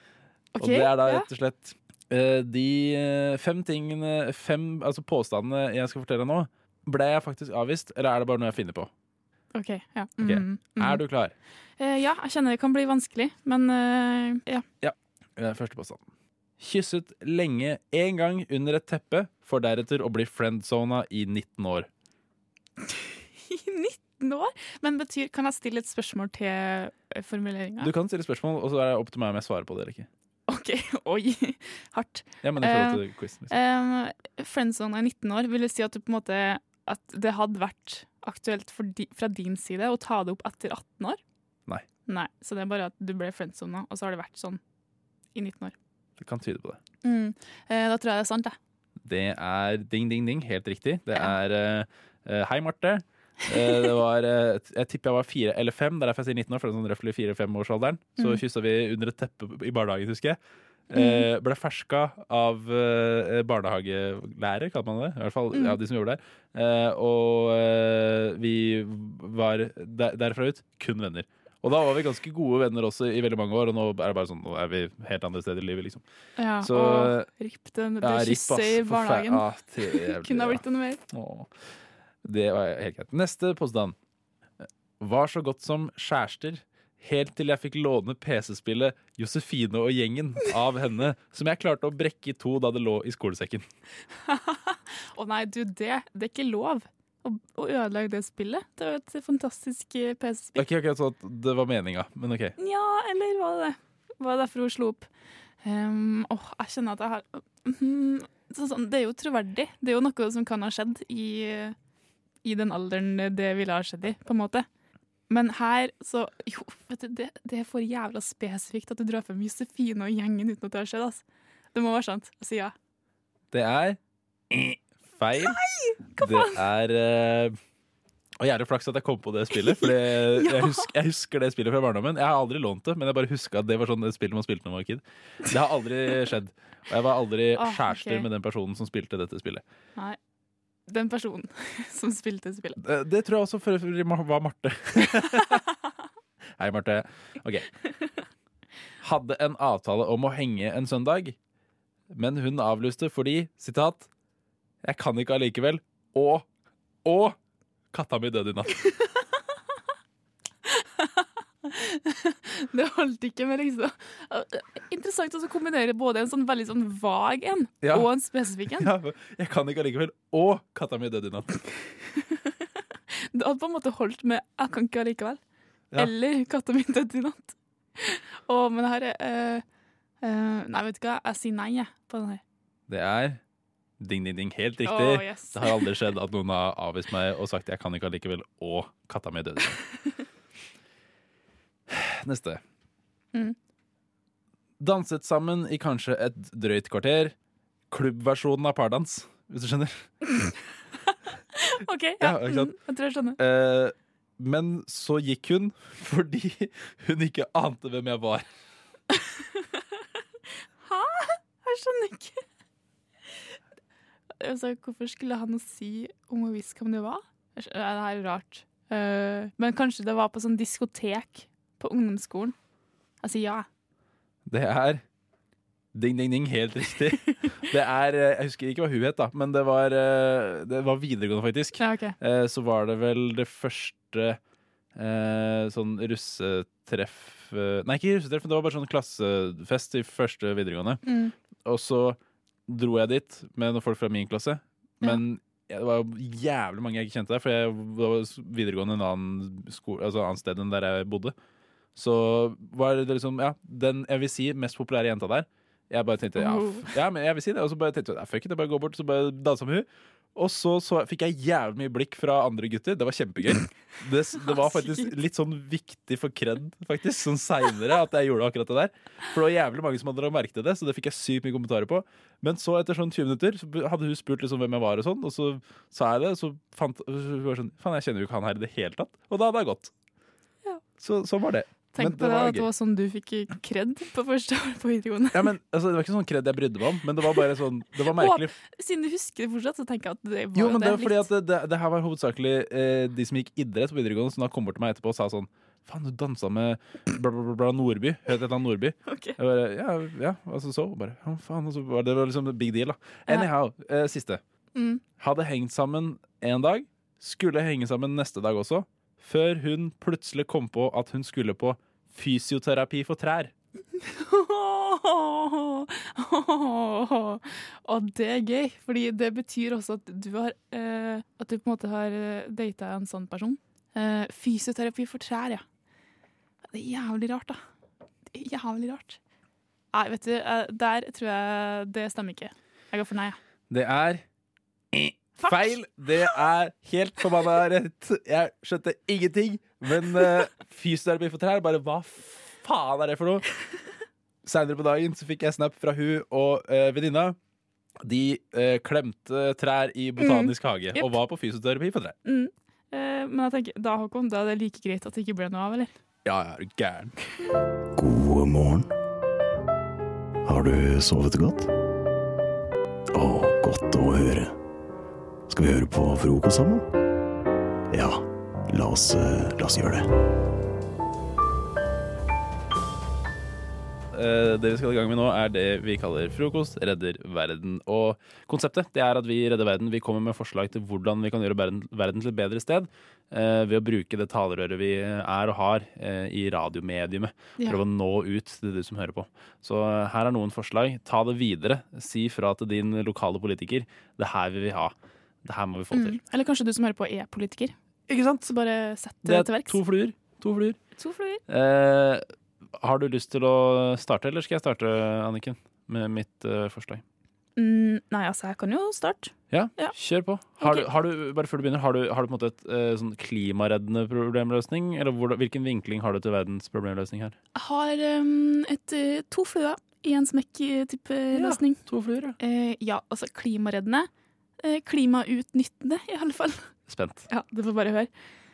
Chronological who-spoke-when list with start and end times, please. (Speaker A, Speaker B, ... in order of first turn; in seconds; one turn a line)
Speaker A: 0.5-1.3
Speaker B: 0.6-8.9
Speaker A: 9.5-11.0
Speaker B: 10.2-11.3
Speaker A: 11.8-14.7
Speaker B: 14.8-16.1
Speaker B: 16.6-21.9
Speaker A: 23.4-27.9
Speaker B: 27.8-30.1
Speaker A: 30.5-41.2
Speaker B: 32.4-33.5
Speaker A: 42.1-44.6
Speaker A: 45.3-45.7
Speaker B: 46.2-46.8
Speaker A: 47.0-48.6
Speaker B: 49.0-60.4
Speaker B: 60.9-76.0
Speaker A: 60.9-61.3
Speaker A: 65.5-65.8
Speaker A: 76.4-81.0
Speaker B: 76.6-77.3
Speaker B: 78.0-81.5
Speaker B: 82.2-84.0
Speaker B: 85.0-93.7
Speaker A: 94.3-100.7
Speaker B: 100.6-102.5
Speaker A: 102.6-105.1
Speaker A: 105.6-111.8
Speaker A: 112.4-114.7
Speaker A: 115.3-122.8
Speaker B: 123.5-124.0
Speaker B: 124.5-125.6
Speaker A: 125.4-126.5
Speaker B: 126.2-127.6
Speaker B: 128.4-139.6
Speaker A: 129.7-130.9
Speaker A: 137.6-138.3
Speaker A: 140.9-142.8
Speaker B: 142.8-145.6
Speaker B: 146.6-147.7
Speaker B: 149.0-151.4
Speaker B: 152.1-154.1
Speaker B: 154.8-156.5
Speaker B: 157.1-157.4
Speaker B: 157.9-158.8
Speaker A: 160.7-168.9
Speaker B: 167.8-168.1
Speaker B: 168.8-171.7
Speaker A: 173.3-175.4
Speaker A: 176.0-179.6
Speaker A: 180.2-182.4
Speaker B: 182.9-183.4
Speaker B: 184.0-189.8
Speaker A: 184.9-185.9
Speaker B: 191.9-192.6
Speaker B: 194.8-197.3
Speaker B: 197.9-200.1
Speaker A: 201.6-203.4
Speaker B: 202.2-202.7
Speaker B: 203.4-208.5
Speaker A: 210.8-212.4
Speaker A: 214.4-222.6
Speaker A: 223.2-223.7
Speaker B: 224.5-225.0
Speaker B: 225.9-234.4
Speaker A: 231.8-232.2
Speaker B: 234.9-241.0
Speaker A: 241.1-241.3
Speaker B: 241.7-251.3
Speaker B: 252.0-279.9
Speaker A: 256.4-256.9
Speaker A: 264.4-265.1
Speaker B: 281.0-282.7
Speaker A: 281.9-285.5
Speaker B: 285.3-288.5
Speaker A: 288.1-291.3
Speaker B: 290.6-304.4
Speaker A: 299.1-299.4
Speaker A: 304.8-305.0
Speaker B: 305.2-313.5
Speaker A: 314.0-325.6
Speaker A: 326.7-327.6
Speaker A: 328.3-329.2
Speaker A: 329.9-333.4
Speaker B: 333.7-334.2
Speaker B: 334.9-343.4
Speaker A: 335.4-335.8
Speaker B: 344.4-347.4
Speaker B: 348.0-352.2
Speaker A: 350.2-351.2
Speaker A: 352.2-355.9
Speaker B: 356.2-357.1
Speaker C: 358.0-358.9
Speaker C: 360.4-361.7
Speaker C: 363.1-364.5
Speaker C: 365.5-366.8
Speaker C: 367.9-370.1
Speaker B: 374.1-396.2
Speaker A: 395.9-397.7
Speaker B: 398.1-398.5
Speaker A: 398.5-399.8
Speaker B: 399.3-400.8
Speaker A: 401.0-401.4
Speaker B: 401.5-402.2
Speaker B: 402.8-407.0
Speaker A: 407.6-410.0
Speaker B: 409.5-417.4
Speaker A: 410.6-410.9
Speaker A: 417.5-421.8
Speaker B: 421.3-422.4
Speaker A: 422.4-424.1
Speaker A: 424.6-426.7
Speaker B: 426.9-427.3
Speaker A: 427.3-428.1